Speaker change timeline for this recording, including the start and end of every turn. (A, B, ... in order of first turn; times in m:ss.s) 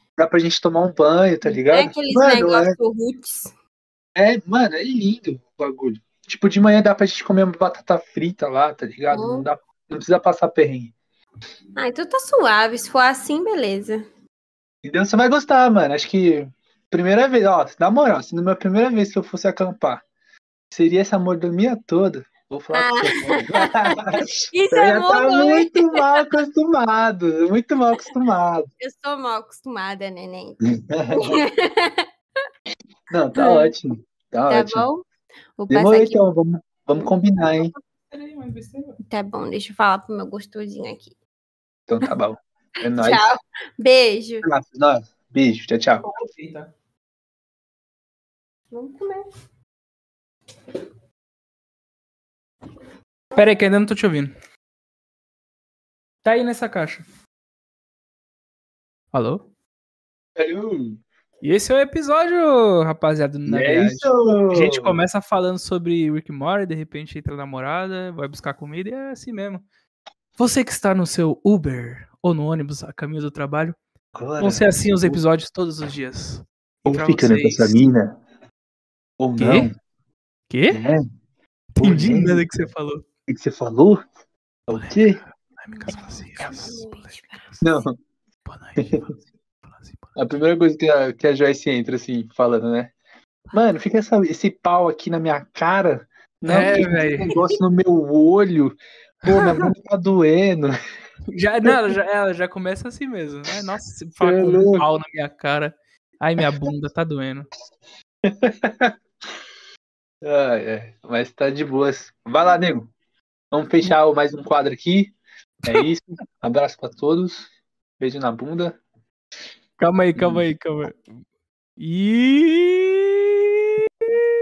0:00.2-0:02.8 A
0:01.5-0:03.5 B
0:04.1-0:10.9 A
0:09.1-0:09.4 B
0:11.8-0:14.0 B
0:14.8-0:20.0 A
0:20.7-0:28.7 A
0:22.7-0:24.0 B
0:24.5-0:26.2 B
0:28.8-0:30.6 B
0:30.6-0:31.4 A
0:31.1-0:32.0 B
0:33.1-0:34.9 A
0:33.4-0:33.7 B
0:34.5-0:35.0 B
0:35.6-0:36.2 B
0:35.7-0:37.7 A
0:38.1-0:39.0 C
0:39.1-0:41.1 B
0:41.9-0:43.3 A
0:42.9-0:44.5 B
0:44.4-0:46.1 A
0:46.0-0:46.7 C
0:48.7-0:49.3 B
0:53.3-0:54.3 C
0:56.2-0:57.0 C
0:59.1-0:59.4 C
1:00.4-1:01.0 A
1:01.4-1:09.6 C
1:03.5-1:05.0 A
1:10.4-1:13.8 C
1:14.1-1:15.2 A
1:14.4-1:17.8 C
1:16.8-1:18.2 A
1:19.2-1:19.7 A
1:19.4-1:19.7 C
1:20.5-1:20.8 C
1:20.7-1:21.0 A
1:21.7-1:23.0 C
1:21.8-1:22.4 A
1:23.3-1:24.0 A
1:24.7-1:25.2 A
1:24.7-1:27.6 C
1:25.9-1:27.6 B
1:27.6-1:28.0 A
1:28.4-1:30.5 C
1:28.8-1:29.0 A
1:30.2-1:32.9 A
1:33.5-1:40.7 A
1:36.4-1:37.4 C
1:39.2-1:39.7 C
1:41.3-1:47.5 C
1:44.2-1:44.9 A
1:48.3-1:48.9 A
1:50.2-1:52.9 A
1:53.5-1:55.2 A
1:55.7-1:58.8 A
1:59.8-2:01.1 C
2:00.2-2:00.4 A
2:01.8-2:03.4 C